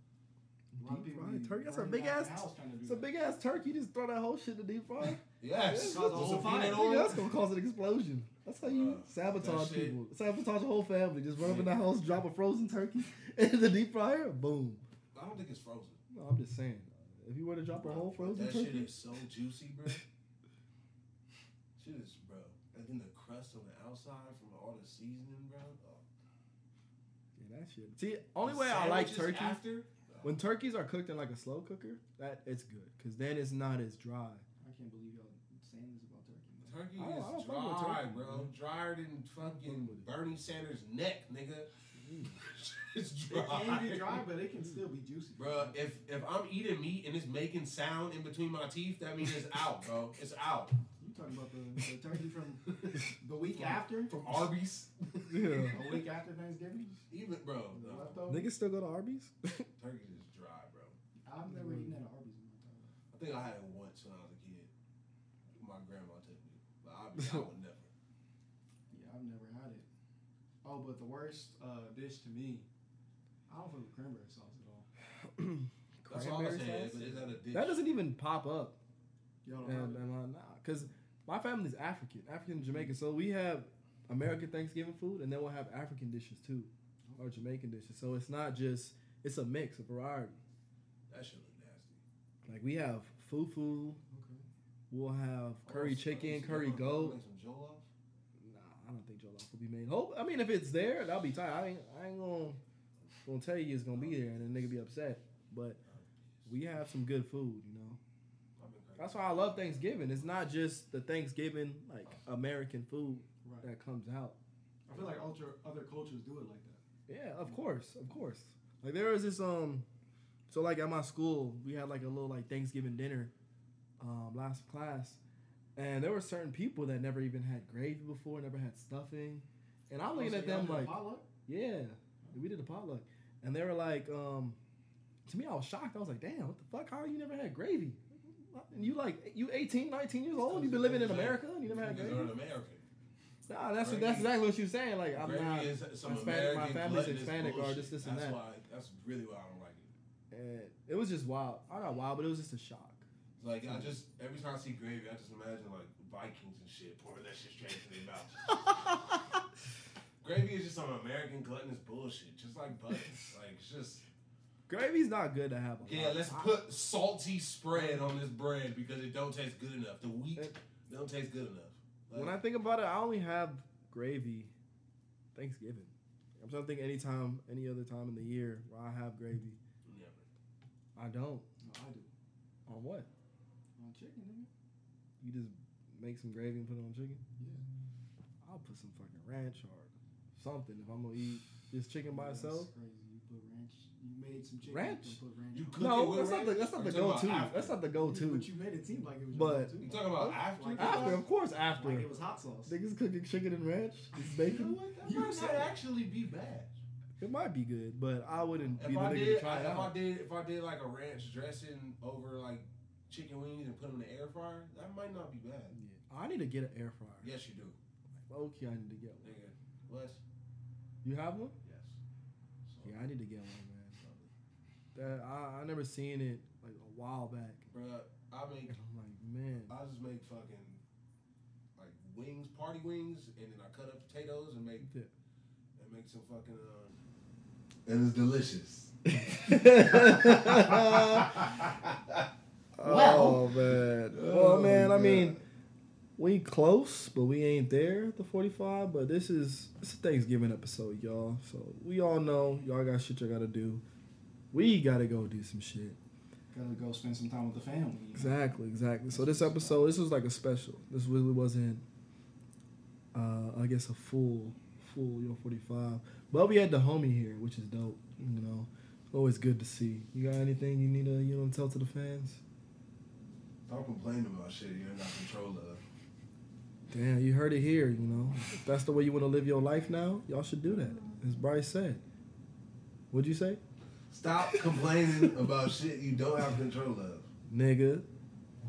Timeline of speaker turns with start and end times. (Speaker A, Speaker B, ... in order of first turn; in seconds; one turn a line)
Speaker A: 0.7-14.8
Speaker B: 0.8-3.1
Speaker C: 5.3-7.3
Speaker B: 5.7-7.0
Speaker C: 8.6-10.0
Speaker C: 11.4-11.8
Speaker C: 15.2-16.0
Speaker A: 16.1-18.9
Speaker C: 17.8-20.0
Speaker C: 21.8-26.1
Speaker A: 27.4-29.6
Speaker C: 28.4-30.4
Speaker A: 30.2-34.5
Speaker B: 34.6-36.8
Speaker C: 36.6-41.7
Speaker A: 37.0-38.5
Speaker A: 39.6-40.1
Speaker A: 42.0-42.4
Speaker C: 42.4-44.2
Speaker B: 43.3-45.8
Speaker C: 45.4-50.8
Speaker B: 51.0-54.1
Speaker C: 52.7-53.0
Speaker C: 53.5-56.0
Speaker A: 55.3-55.8
Speaker B: 55.6-57.0
Speaker C: 57.1-58.2
Speaker B: 57.7-58.5
Speaker A: 58.3-59.7
Speaker C: 59.8-61.0
Speaker B: 61.2-63.0
Speaker A: 61.5-62.0
Speaker C: 63.1-64.7
Speaker C: 65.6-67.9
Speaker A: 67.2-67.5
Speaker B: 68.9-69.9
Speaker B: 70.6-72.7
Speaker B: 73.5-74.9
Speaker A: 75.2-78.8
Speaker C: 76.1-77.8
Speaker B: 79.4-80.0
Speaker A: 79.6-90.4
Speaker B: 82.6-82.9
Speaker C: 91.1-92.0
Speaker A: 92.5-94.0
Speaker B: 94.1-94.5
Speaker A: 94.9-97.2
Speaker C: 95.7-97.9
Speaker A: 98.4-102.6
Speaker A: 103.2-105.8
Speaker C: 103.9-104.7
Speaker A: 106.5-108.0
Speaker C: 108.6-110.4
Speaker A: 109.0-114.4
Speaker B: 114.9-116.8
Speaker C: 114.9-115.2
Speaker A: 117.1-119.9
Speaker A: 120.5-123.3
Speaker A: 124.0-125.2
Speaker A: 125.8-134.6
Speaker B: 130.1-131.3
Speaker A: 135.3-142.3
Speaker C: 140.5-142.8
Speaker A: 143.5-148.4
Speaker C: 143.8-144.3
Speaker C: 145.1-149.9
Speaker A: 150.3-153.1
Speaker C: 153.4-158.8
Speaker A: 153.7-153.9
Speaker C: 160.2-164.1
Speaker A: 162.9-163.3
Speaker A: 164.7-166.6
Speaker C: 165.8-172.4
Speaker A: 167.8-168.1
Speaker A: 172.1-174.5
Speaker A: 175.3-179.6
Speaker C: 179.8-180.3
Speaker A: 181.0-181.5
Speaker B: 181.6-182.1
Speaker A: 182.7-183.1
Speaker B: 183.8-184.5
Speaker A: 185.2-187.2
Speaker B: 187.4-187.6
Speaker A: 188.4-192.7
Speaker B: 192.1-195.9
Speaker A: 194.7-195.2
Speaker C: 195.5-197.8
Speaker A: 195.8-198.5
Speaker B: 198.0-202.8
Speaker A: 199.3-199.8
Speaker C: 199.8-201.3
Speaker A: 200.8-202.1
Speaker A: 202.7-204.8
Speaker C: 204.2-206.8
Speaker B: 204.6-205.7
Speaker A: 207.2-210.0
Speaker C: 208.8-215.7
Speaker A: 215.7-217.3
Speaker C: 217.2-217.8
Speaker A: 218.3-219.4
Speaker C: 219.2-220.2
Speaker A: 221.0-221.6
Speaker C: 221.6-222.0
Speaker C: 222.7-223.0
Speaker A: 222.8-224.0
Speaker C: 224.0-224.3
Speaker A: 224.9-227.7
Speaker C: 227.7-228.7
Speaker A: 228.7-229.8
Speaker C: 229.7-230.8
Speaker C: 231.8-234.9
Speaker A: 234.8-235.1
Speaker C: 235.8-236.9
Speaker C: 237.9-242.2
Speaker A: 239.1-241.5
Speaker A: 242.8-245.4
Speaker C: 242.8-245.4
Speaker A: 246.2-253.8
Speaker A: 254.5-256.0
Speaker B: 256.5-258.4
Speaker A: 258.2-261.8
Speaker B: 259.1-259.8
Speaker A: 263.1-272.4
Speaker C: 273.7-275.8
Speaker A: 276.9-282.0
Speaker A: 283.1-283.6
Speaker C: 284.1-287.3
Speaker A: 284.4-285.3
Speaker A: 287.5-288.1